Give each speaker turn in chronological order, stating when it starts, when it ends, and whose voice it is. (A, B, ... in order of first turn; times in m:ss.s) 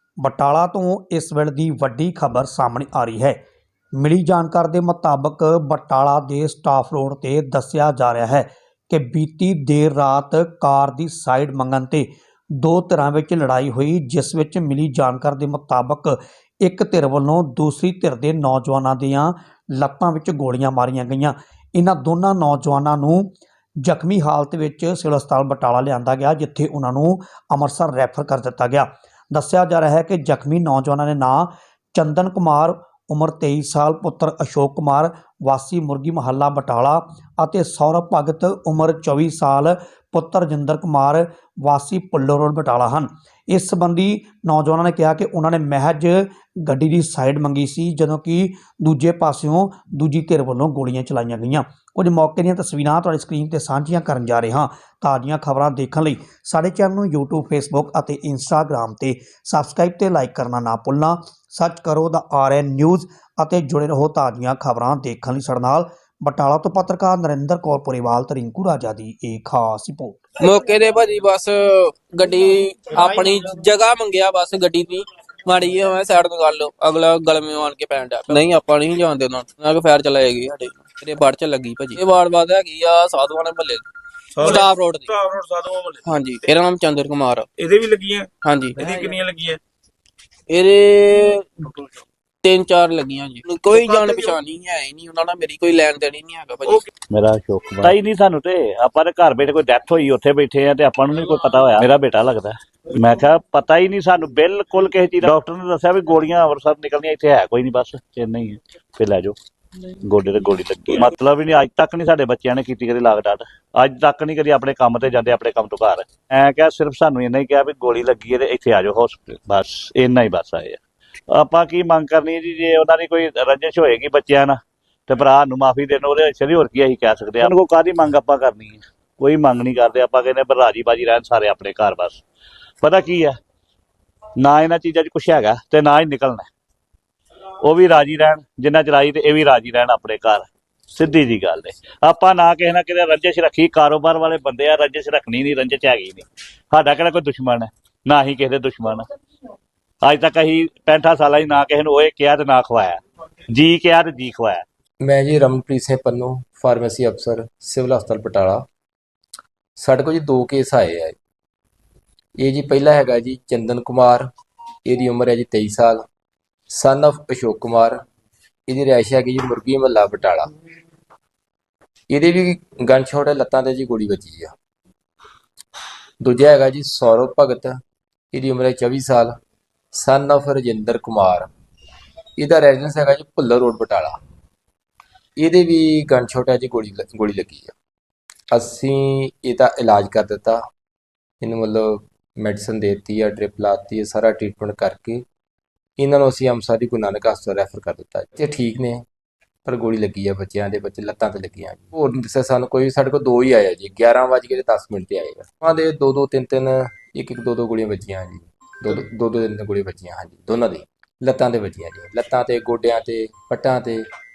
0:00.2-0:03.4 A
0:04.0-1:10.2 A
1:10.4-1:25.1 B
1:25.3-1:26.0 C
1:26.0-1:27.5 B
1:27.6-1:28.3 C
1:28.4-1:29.2 B
1:29.0-1:29.5 C
1:30.5-1:31.8 B
1:32.4-1:36.9 B
1:37.1-1:49.4 D
1:50.0-2:00.8 D
2:01.3-2:04.6 D
2:05.1-2:12.2 D
2:12.8-2:13.4 D
2:14.4-2:16.5 D
2:17.6-2:29.1 D
2:30.0-2:33.0 D
2:33.5-2:34.6 D
2:35.0-2:38.6 E
2:39.8-2:41.2 E
2:42.4-2:44.3 E
2:44.8-2:46.0 E
2:46.7-2:48.0 E
2:48.7-2:50.5 E
2:52.1-2:54.5 E
2:56.2-2:57.8 E
2:58.3-2:59.4 E
2:59.9-3:01.5 E
3:02.4-3:04.2 E
3:05.4-3:07.8 E
3:08.5-3:10.6 E
3:11.4-3:15.2 E
3:16.0-3:19.0 E
3:19.6-3:34.0 E